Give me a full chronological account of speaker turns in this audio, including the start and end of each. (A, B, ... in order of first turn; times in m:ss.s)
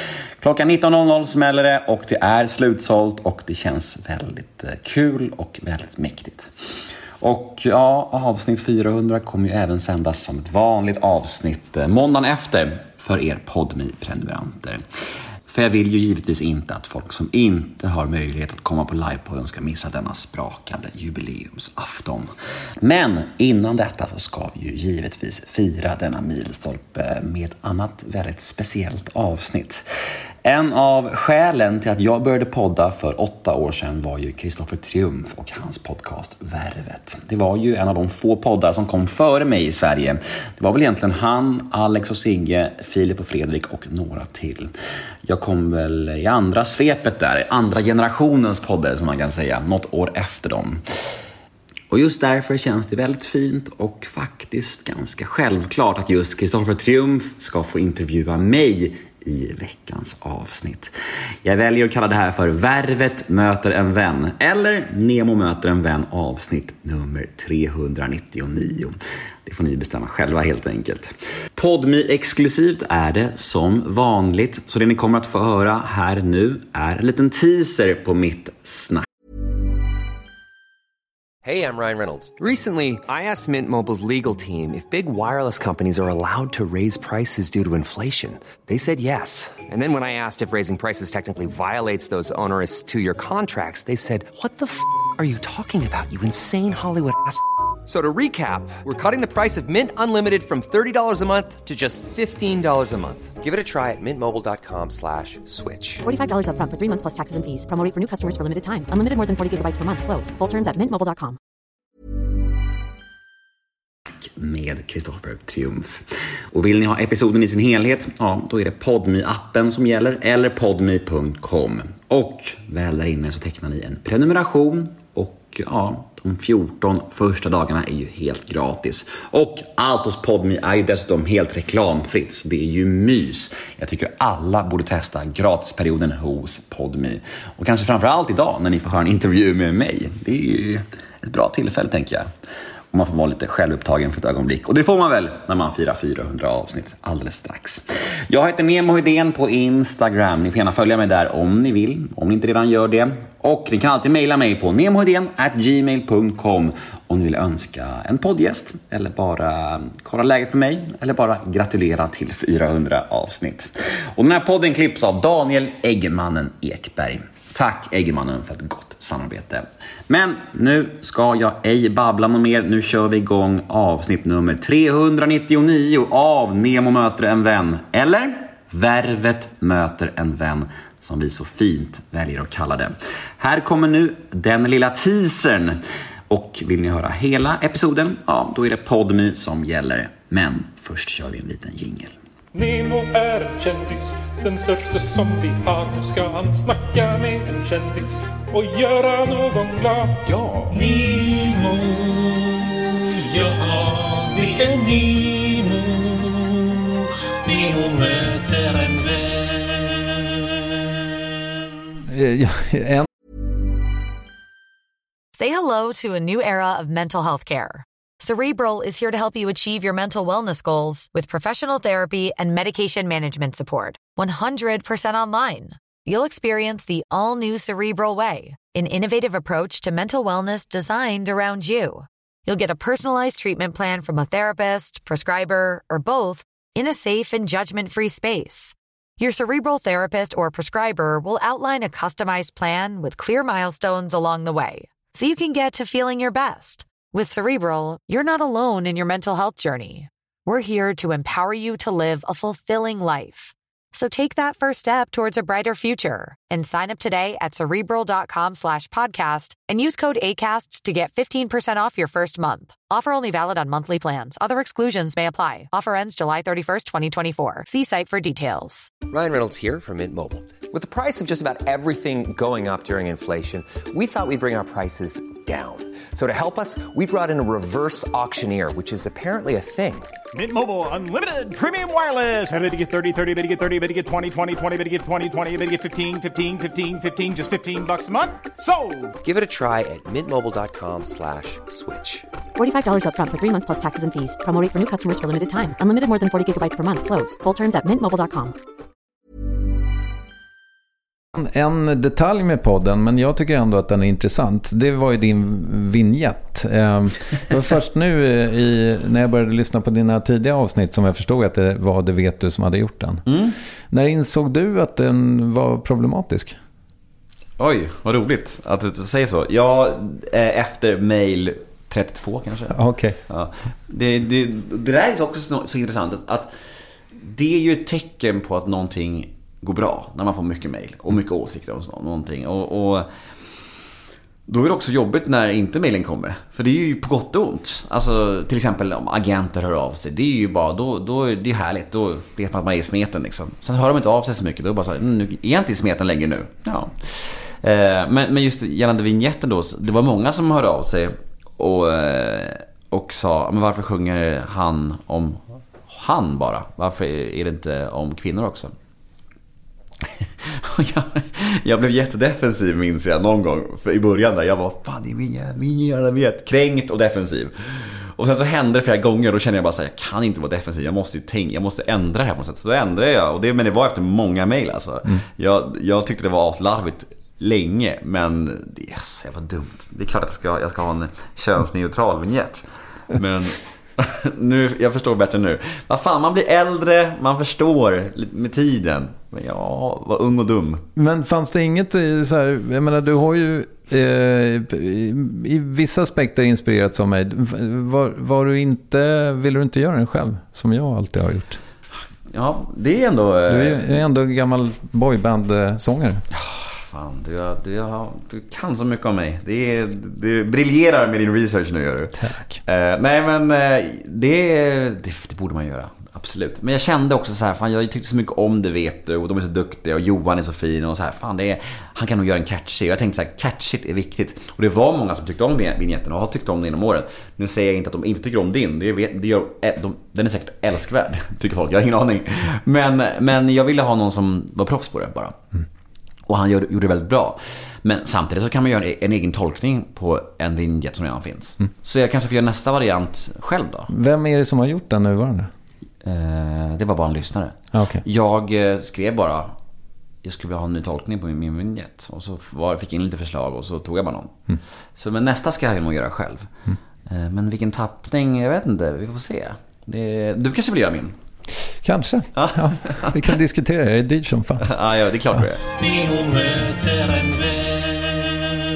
0:00.4-0:06.5 A
0:07.2-0:14.8 A
0:15.5-0:22.3 A
0:22.8-0:29.8 A
0:30.4-0:44.7 A
0:45.2-0:50.8 A
0:51.9-1:00.9 A
1:01.4-1:19.0 A
1:21.4-1:46.0 B
1:46.0-1:51.4 C
1:54.2-2:22.3 A
2:22.9-3:05.8 A
3:06.3-3:12.1 A
3:12.6-3:20.1 D
3:20.3-3:20.6 B
3:20.7-3:26.2 D
3:27.5-3:29.7 D
3:32.1-3:33.1 E
3:35.4-4:28.9 F
4:29.0-4:40.2 B
4:40.3-4:49.1 G
4:49.2-4:52.3 B
4:52.6-4:58.6 C
5:01.4-5:13.2 E
5:13.3-5:13.6 H
5:13.9-5:16.6 E
5:17.6-5:22.8 H
5:22.7-5:23.2 E
5:23.3-5:26.5 H
5:27.1-5:33.1 H
5:34.5-5:58.7 H
6:00.2-6:30.8 H
6:31.0-6:41.6 E
6:42.3-6:43.9 H
6:43.5-6:46.2 E
6:46.3-7:15.4 H
6:52.2-6:52.6 E
7:16.3-7:23.9 H
7:23.9-7:25.5 E
7:26.0-7:29.5 H
7:27.7-7:28.0 E
7:30.2-7:34.4 H
7:35.0-7:36.5 H
7:37.1-7:41.2 H
7:41.8-7:44.7 E
7:42.4-7:43.2 H
7:44.7-7:47.7 H